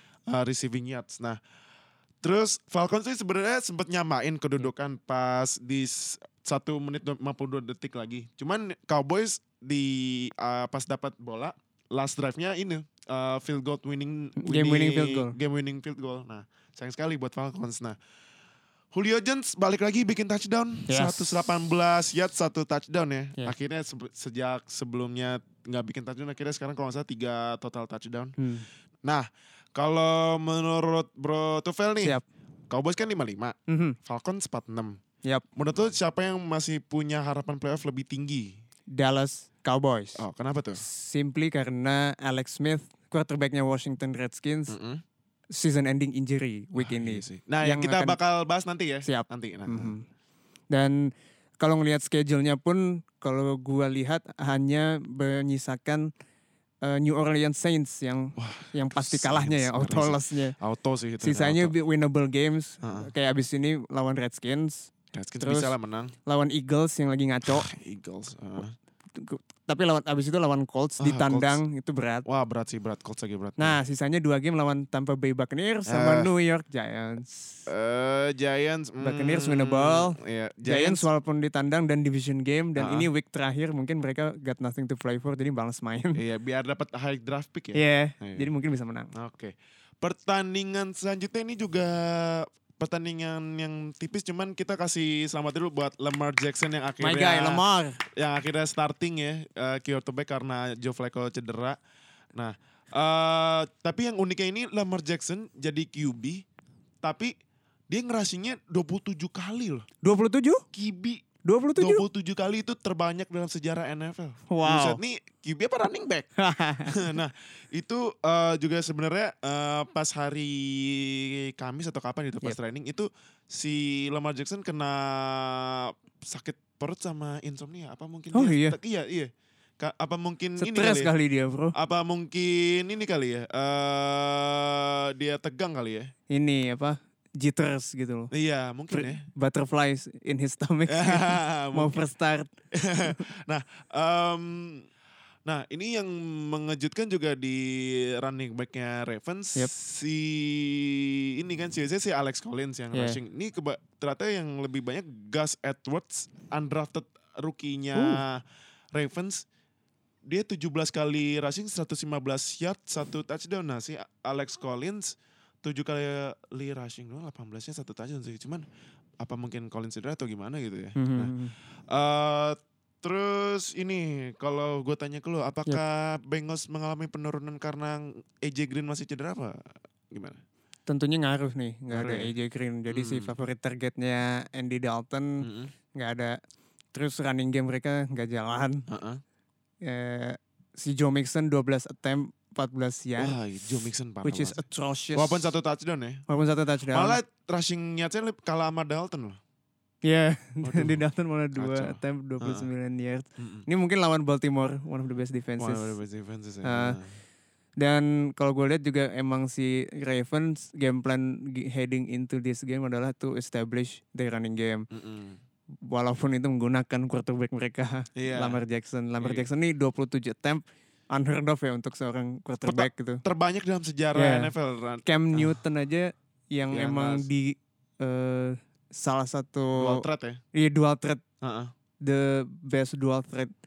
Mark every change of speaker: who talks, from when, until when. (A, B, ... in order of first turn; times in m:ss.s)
0:00.3-0:01.4 A
0:02.2-0:18.0 A
0:14.4-0:15.4 B
0:18.9-0:28.4 A
0:20.9-0:21.5 B
0:28.4-0:28.7 B
0:29.0-0:32.2 A
0:32.7-0:35.0 A
0:33.7-0:34.0 B
0:35.6-0:38.6 A
0:39.0-0:40.2 B
0:40.2-0:40.8 A
0:40.8-0:44.8 B
0:44.7-0:45.0 A
0:45.5-0:48.2 B
0:46.8-0:49.9 A
0:49.0-0:50.1 B
0:50.7-0:56.1 B
0:56.8-1:00.6 B
0:58.4-1:01.7 A
1:01.2-1:05.7 B
1:02.8-1:03.1 A
1:05.1-1:06.1 A
1:06.3-1:07.7 B
1:07.5-1:08.7 A
1:09.2-1:12.3 B
1:11.0-1:11.6 A
1:12.2-1:13.8 A
1:13.6-1:17.6 B
1:15.9-1:16.3 A
1:17.7-1:21.1 A
1:19.0-1:26.2 B
1:22.8-1:23.1 A
1:26.2-1:28.5 A
1:27.8-1:29.1 B
1:29.2-1:41.8 A
1:37.0-1:38.0 B
1:42.3-1:46.4 A
1:47.0-1:47.3 A
1:47.9-1:49.9 A
1:50.0-1:50.6 B
1:50.7-1:51.2 A
1:51.4-1:52.0 B
1:51.8-1:56.3 A
1:54.5-1:55.0 B
1:56.4-1:57.2 B
1:56.9-2:11.1 A
2:08.3-2:08.8 B
2:10.6-2:11.8 B
2:11.7-2:16.1 A
2:16.3-2:18.3 B
2:18.3-2:19.3 A
2:18.9-2:22.5 B
2:20.9-2:22.1 A
2:22.7-2:24.9 A
2:25.5-2:38.4 A
2:32.9-2:33.2 B
2:38.0-2:38.2 B
2:38.9-2:39.4 A
2:40.2-2:48.7 A
2:49.2-2:51.3 A
2:51.0-2:51.6 B
2:51.9-3:00.4 A
3:00.9-3:06.4 B
3:01.9-3:02.3 A
3:02.9-3:03.3 A
3:05.4-3:05.7 A
3:06.9-3:08.9 B
3:08.9-3:09.2 A
3:09.8-3:13.4 B
3:13.2-3:14.6 A
3:14.2-3:15.5 B
3:15.2-3:16.2 A
3:16.3-3:17.2 B
3:16.9-3:19.4 A
3:20.0-3:26.0 B
3:20.6-3:21.0 A
3:21.6-3:22.7 A
3:23.4-3:23.7 A
3:25.6-3:27.2 A
3:26.6-3:27.0 B
3:27.8-3:34.9 B
3:34.9-3:35.4 A
3:35.9-3:43.2 B
3:38.2-3:38.6 A
3:39.2-3:39.5 A
3:42.7-3:45.6 A
3:44.2-3:44.5 B
3:45.0-3:51.2 B
3:46.7-3:47.3 A
3:49.8-3:50.4 A
3:51.4-3:51.7 A
3:52.0-3:53.5 B